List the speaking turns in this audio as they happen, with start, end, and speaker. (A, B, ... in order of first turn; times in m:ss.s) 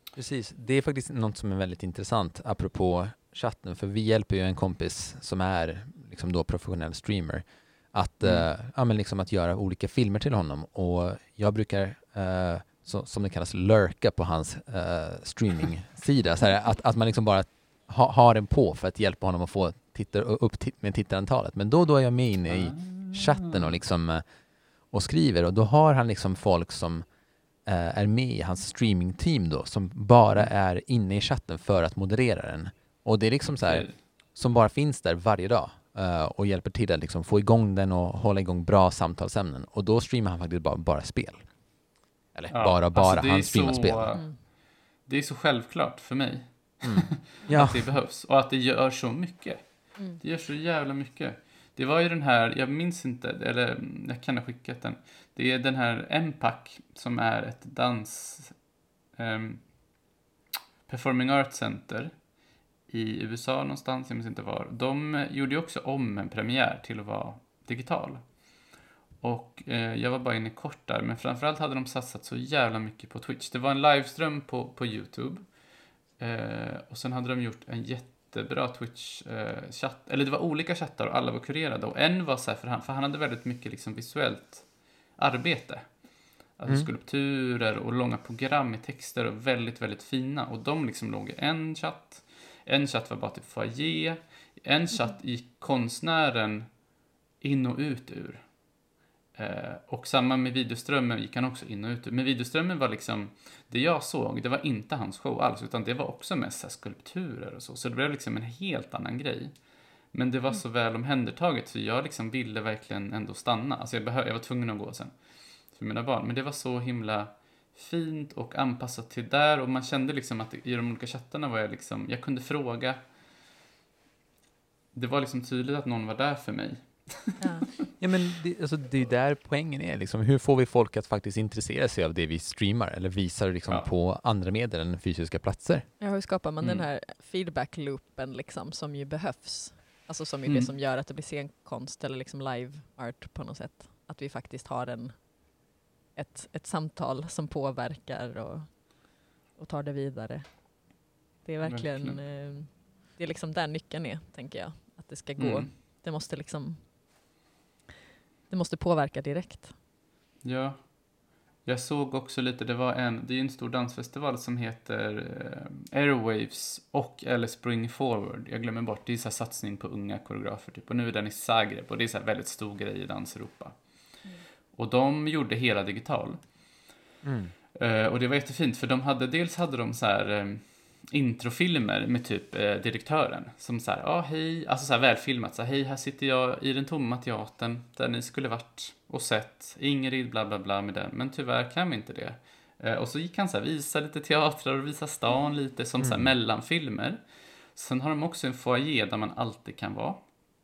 0:00.2-0:24.2 A
0:22.5-0:23.8 B
0:24.9-0:27.1 A
0:27.6-0:41.4 A
0:33.5-0:34.0 B
0:42.4-0:44.2 A
0:42.5-0:44.3 B
0:45.1-0:58.6 B
0:46.8-0:47.8 A
0:59.2-0:59.6 B
1:00.9-1:02.2 B
1:02.9-1:08.3 B
1:09.2-1:15.6 B
1:16.2-1:26.0 B
1:26.6-1:36.7 B
1:37.4-1:38.4 B
1:39.4-1:55.2 B
1:55.7-2:03.0 B
2:04.9-2:07.4 B
2:07.4-2:07.7 C
2:08.0-2:15.9 A
2:16.0-2:25.3 C
2:20.5-2:20.7 B
2:26.2-2:28.9 C
2:29.6-2:30.7 C
2:31.4-2:36.9 C
2:31.6-2:32.2 B
2:35.4-2:35.7 B
2:38.5-2:39.7 C
2:40.4-2:40.9 B
2:41.6-2:53.8 B
2:54.7-2:56.4 B
2:57.2-2:57.5 A
2:57.8-3:17.2 B
3:16.0-3:16.3 A
3:17.7-3:20.2 B